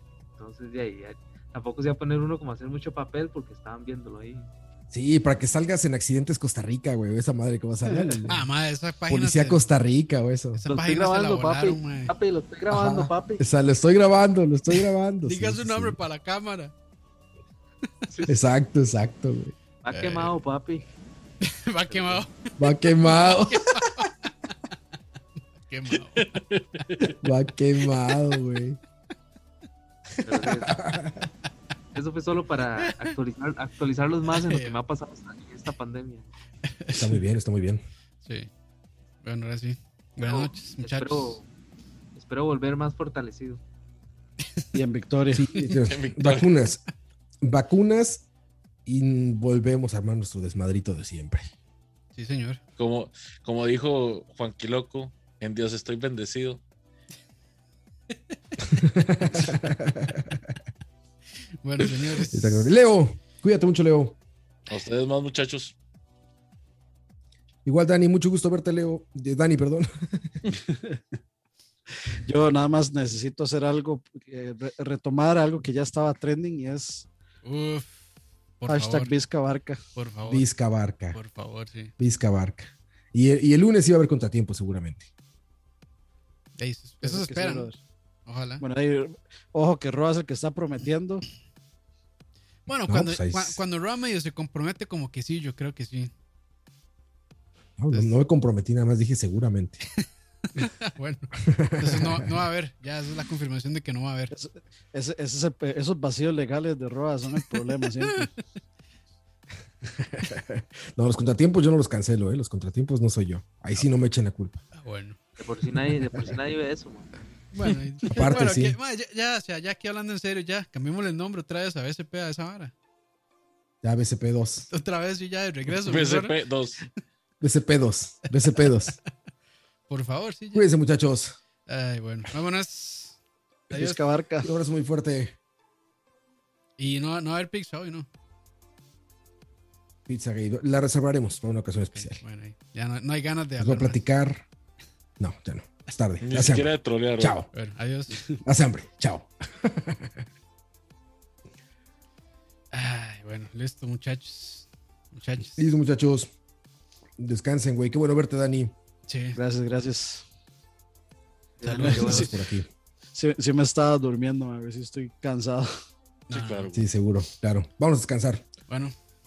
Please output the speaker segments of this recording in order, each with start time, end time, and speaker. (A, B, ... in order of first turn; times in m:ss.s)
0:00.4-0:04.5 A
0:04.9-0:08.5 B
0:07.9-0:08.2 C
0:08.3-0:09.6 D
0:09.1-0:10.6 B
0:10.5-0:12.1 D
0:10.6-0:13.4 A
0:12.7-0:16.0 B
0:14.8-0:16.7 D
0:18.1-0:18.4 A
0:18.3-0:19.5 B
0:19.8-0:20.9 A
0:19.9-0:20.3 D
0:21.4-0:24.1 D
0:21.9-0:22.2 A
0:22.6-0:23.8 B
0:25.6-0:26.4 D
0:26.2-0:27.1 E
0:27.2-0:28.8 B
0:30.2-0:31.3 B
0:30.2-0:30.8 A
0:31.9-0:36.3 A
0:32.9-0:33.1 D
0:34.4-0:34.8 D
0:36.7-0:37.1 D
0:36.9-0:37.8 B
0:38.2-0:38.5 D
0:39.2-0:41.4 D
0:40.2-0:41.5 A
0:42.2-0:43.6 A
0:44.7-0:45.5 C
0:45.3-0:46.8 B
0:45.5-0:45.8 D
0:45.9-0:46.5 E
0:47.4-0:48.3 B
0:48.9-0:51.5 B
0:52.2-0:52.6 D
0:52.8-0:56.6 E
0:58.7-1:00.5 B
1:01.6-1:02.7 D
1:02.3-1:04.2 B
1:04.7-1:05.8 E
1:07.6-1:10.4 B
1:10.5-1:11.0 C
1:12.2-1:17.1 C
1:17.4-1:18.1 D
1:18.6-1:19.2 D
1:18.7-1:19.8 C
1:20.0-1:20.5 D
1:20.3-1:21.2 B
1:21.1-1:21.9 D
1:22.0-1:25.1 B
1:26.6-1:27.7 D
1:27.0-1:27.8 C
1:28.3-1:28.6 D
1:28.6-1:31.2 C
1:32.7-1:36.1 D
1:32.9-1:33.6 B
1:37.8-1:39.8 B
1:37.9-1:38.2 D
1:40.6-1:44.3 D
1:41.4-1:42.3 B
1:44.3-1:48.3 C
1:47.8-1:48.4 D
1:50.0-1:54.6 B
1:54.7-1:55.2 D
1:55.4-1:57.1 A
1:57.5-2:02.7 D
1:58.1-1:58.8 B
2:03.8-2:04.7 B
2:04.7-2:06.4 D
2:05.8-2:06.8 E
2:07.4-2:09.0 B
2:09.9-2:10.7 D
2:10.5-2:11.4 B
2:11.7-2:13.2 D
2:13.7-2:14.5 C
2:13.7-2:14.0 D
2:14.4-2:15.4 B
2:16.8-2:18.1 D
2:20.1-2:22.2 B
2:22.0-2:24.0 D
2:23.6-2:24.5 B
2:25.2-2:27.5 B
2:26.2-2:27.4 E
2:27.5-2:28.3 D
2:28.4-2:30.2 B
2:32.7-2:35.6 D
2:35.6-2:36.3 B
2:37.2-2:38.7 B
2:39.1-2:39.4 D
2:39.4-2:40.2 C
2:41.6-2:42.3 A
2:41.6-2:42.4 D
2:41.8-2:42.3 C
2:41.9-2:42.7 B
2:43.1-2:45.7 C
2:46.3-2:46.7 D
2:46.3-2:46.8 E
2:46.7-2:48.4 B
2:48.7-2:48.9 D